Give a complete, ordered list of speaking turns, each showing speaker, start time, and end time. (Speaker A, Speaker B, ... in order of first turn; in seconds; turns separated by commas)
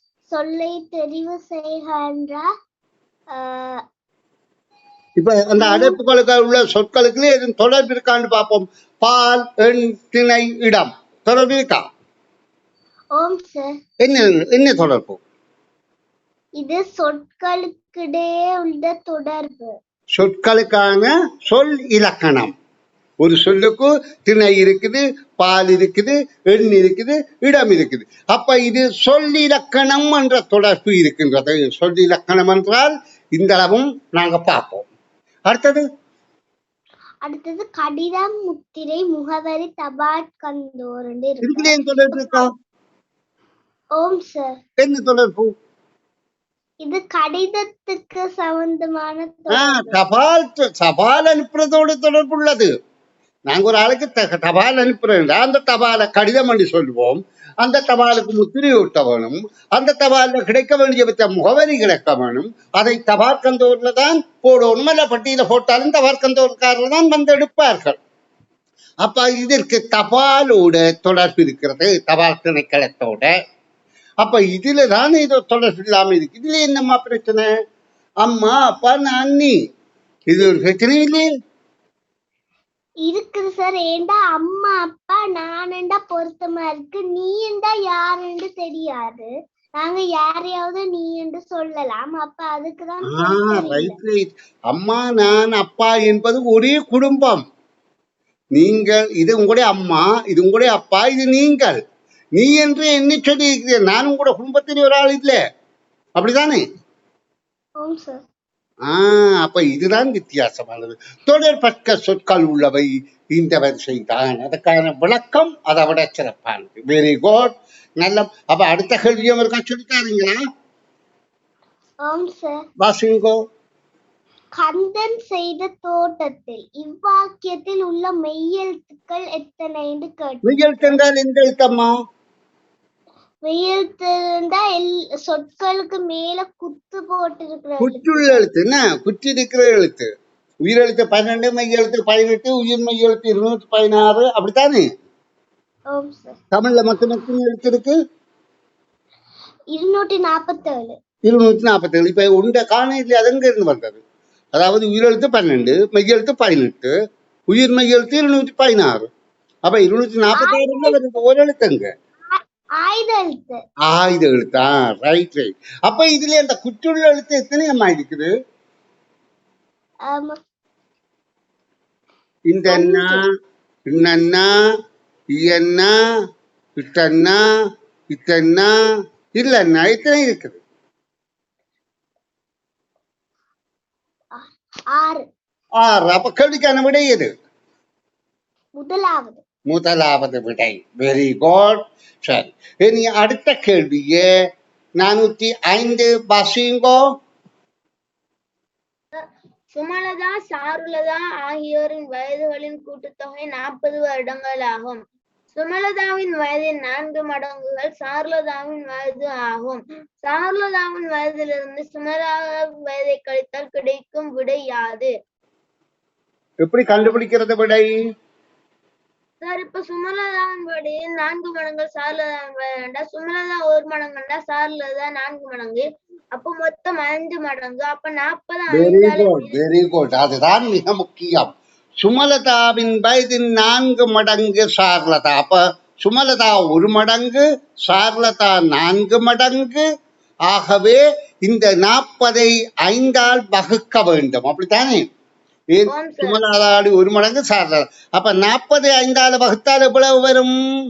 Speaker A: 0.3-2.5, Speaker A: 3.3-3.8, Speaker B: 5.2-11.9, Speaker A: 5.6-6.0, Speaker A: 13.1-13.8, Speaker B: 14.0-15.2, Speaker A: 16.6-19.8, Speaker B: 20.2-22.5, Speaker B: 23.2-34.9, Speaker B: 35.5-35.8, Speaker A: 37.2-42.5, Speaker B: 41.4-42.5, Speaker A: 44.0-44.6, Speaker B: 44.8-45.5, Speaker A: 46.8-50.0, Speaker B: 49.5-52.7, Speaker B: 53.5-68.0, Speaker B: 69.0-73.4, Speaker B: 74.2-77.5, Speaker B: 78.2-79.6, Speaker B: 80.3-81.3, Speaker A: 83.0-93.9, Speaker B: 93.1-97.4, Speaker B: 98.5-101.8, Speaker B: 102.4-105.4, Speaker B: 106.2-106.6, Speaker A: 107.8-108.2, Speaker B: 108.9-120.4, Speaker A: 122.0-122.7, Speaker B: 122.8-123.4, Speaker A: 124.6-131.0, Speaker B: 130.4-131.9, Speaker A: 133.4-138.5, Speaker B: 137.8-140.1, Speaker B: 140.7-144.9, Speaker A: 145.9-146.4, Speaker B: 146.5-148.0, Speaker A: 149.7-151.0, Speaker B: 151.3-154.0, Speaker B: 154.6-156.9, Speaker B: 157.5-159.1, Speaker B: 159.7-161.9, Speaker A: 160.4-161.0, Speaker A: 162.3-163.6, Speaker B: 163.9-168.3, Speaker A: 170.1-170.4, Speaker B: 172.5-173.2, Speaker A: 172.7-173.2, Speaker B: 173.9-174.5, Speaker B: 175.3-175.9, Speaker B: 176.8-177.4, Speaker B: 178.1-178.9, Speaker B: 179.4-180.6, Speaker A: 184.3-185.2, Speaker B: 185.8-187.3, Speaker A: 188.8-189.4, Speaker B: 189.7-194.3, Speaker B: 195.0-197.0, Speaker C: 199.7-205.0, Speaker C: 205.6-215.1, Speaker B: 216.6-217.9, Speaker C: 219.4-225.8, Speaker C: 226.3-229.6, Speaker B: 228.7-239.8, Speaker B: 240.5-245.1, Speaker B: 245.7-250.5, Speaker C: 245.9-246.4